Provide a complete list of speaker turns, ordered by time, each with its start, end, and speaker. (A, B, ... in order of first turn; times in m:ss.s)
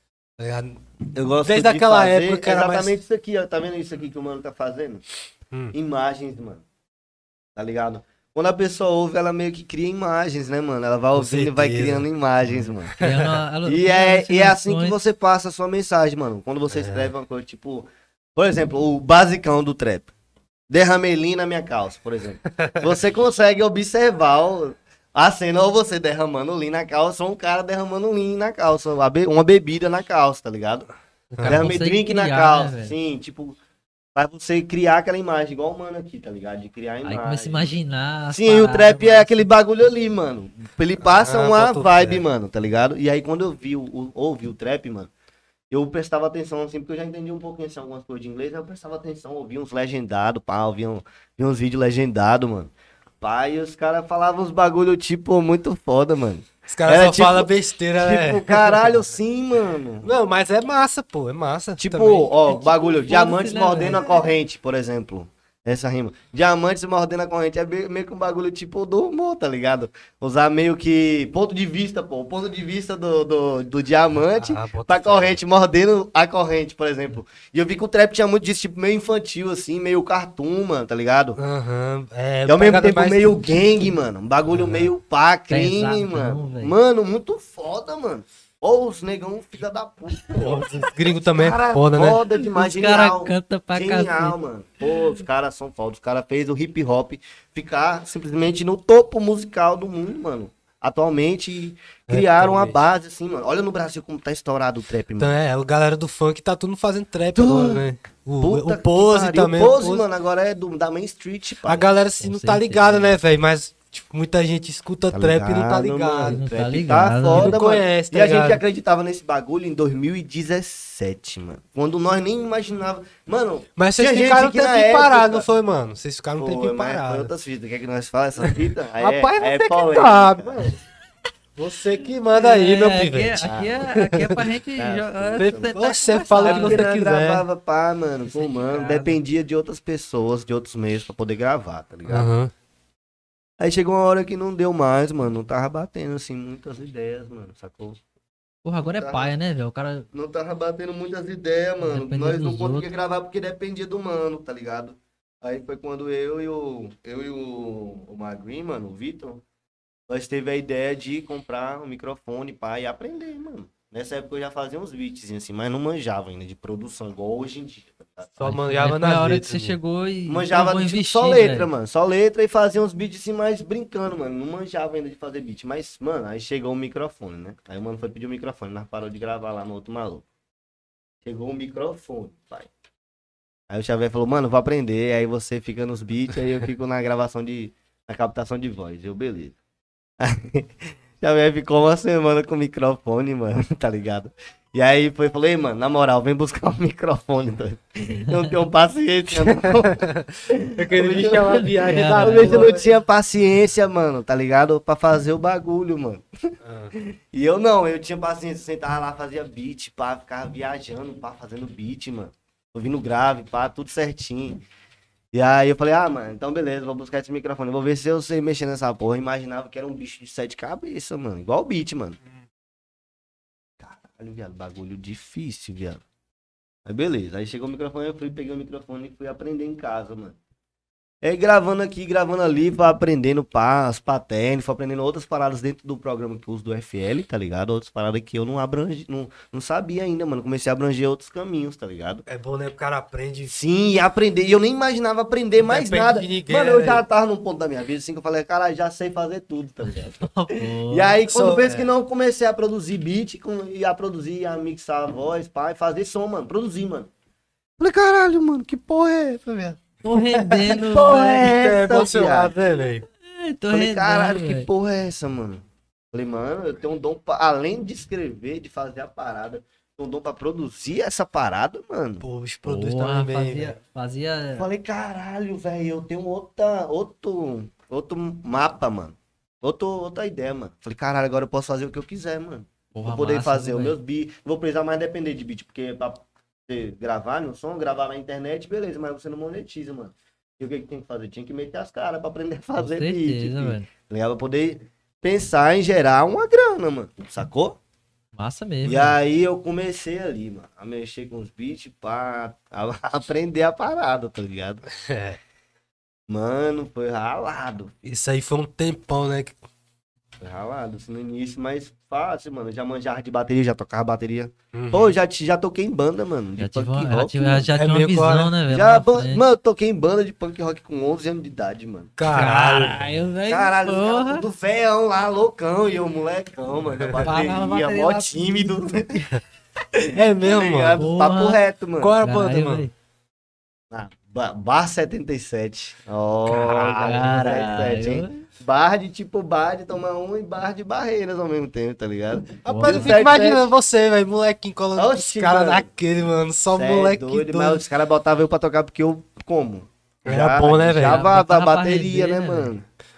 0:00.4-0:00.8 A
0:01.1-0:05.0 B
0:01.4-0:03.0 A
0:05.7-0:06.6 B
0:07.6-0:13.0 B
0:11.1-0:13.4 A
0:13.0-0:15.0 C
0:13.7-0:20.1 B
0:16.7-0:17.1 A
0:20.7-0:30.9 B
0:31.3-0:31.8 A
0:31.4-0:33.0 C
0:31.4-0:33.6 B
0:34.2-0:37.7 B
0:37.0-0:39.5 C
0:38.3-0:45.1 B
0:41.0-0:42.2 A
0:45.7-1:00.1 B
0:56.7-0:59.0 A
1:00.0-1:02.3 A
1:01.8-1:21.4 B
1:02.5-1:04.4 C
1:14.2-1:15.4 A
1:21.4-1:23.4 A
1:22.5-1:45.4 B
1:24.5-1:24.9 A
1:25.5-1:26.8 C
1:30.4-1:32.2 A
1:32.4-1:34.4 C
1:34.9-1:35.2 C
1:42.1-1:42.8 A
1:45.2-1:50.0 A
1:47.3-1:47.9 B
1:48.4-1:51.9 B
1:51.6-1:56.4 A
1:52.2-1:53.2 C
1:55.1-2:05.5 B
1:56.3-1:57.5 C
1:57.3-1:58.6 A
2:03.8-2:07.3 A
2:06.4-2:10.7 B
2:08.4-2:10.8 A
2:11.6-2:13.5 A
2:12.3-2:16.9 C
2:13.4-2:13.9 B
2:14.0-2:14.4 A
2:14.8-2:15.8 B
2:15.4-2:17.4 A
2:16.4-2:22.3 B
2:18.2-2:19.2 C
2:22.1-2:22.5 A
2:23.6-2:28.0 B
2:28.6-2:30.1 C
2:28.9-2:29.3 B
2:30.1-2:39.4 B
2:31.8-2:32.9 C
2:40.1-2:48.4 B
2:48.4-2:49.8 A
2:48.4-2:51.7 C
2:50.3-3:00.2 B
3:01.2-3:02.7 B
3:03.7-3:09.6 B
3:10.2-3:26.3 B
3:19.5-3:20.2 A
3:20.8-3:22.8 A
3:21.9-3:22.7 C
3:26.6-3:26.9 A
3:27.0-3:34.6 B
3:35.3-3:42.2 B
3:43.8-3:46.0 B
3:46.9-3:50.4 B
3:51.2-4:02.2 B
4:02.3-4:03.6 A
4:03.5-4:10.3 B
4:05.6-4:07.0 A
4:10.0-4:11.2 C
4:10.9-4:17.1 B
4:11.3-4:11.9 A
4:17.8-4:19.8 B
4:20.0-4:21.5 C
4:20.1-4:23.1 A
4:20.8-4:22.6 B
4:23.2-4:24.7 C
4:23.7-4:32.2 B
4:32.2-4:33.8 A
4:32.6-4:34.7 C
4:34.6-4:57.8 B
4:42.9-4:44.0 C
4:52.8-4:53.9 C
4:58.4-4:59.2 C
4:58.8-5:04.8 B
5:05.0-5:05.4 A
5:06.3-5:07.9 B
5:08.0-5:09.6 A
5:10.4-5:17.7 B
5:14.7-5:15.2 A
5:16.6-5:19.4 C
5:17.8-5:18.5 A
5:18.7-5:22.5 B
5:22.2-5:23.0 A
5:22.3-5:24.5 C
5:23.5-5:29.3 B
5:27.0-5:27.3 A
5:27.2-5:29.3 C
5:30.0-5:32.1 B
5:30.1-5:31.1 A
5:31.0-5:31.6 C
5:32.0-5:32.9 A
5:32.2-5:32.9 C
5:33.9-5:43.7 B
5:36.5-5:37.9 A
5:37.0-5:38.4 C
5:42.6-5:47.8 A
5:42.7-5:43.2 C
5:45.0-5:45.9 B
5:46.7-5:52.8 B
5:50.3-5:51.2 A
5:51.0-5:52.7 C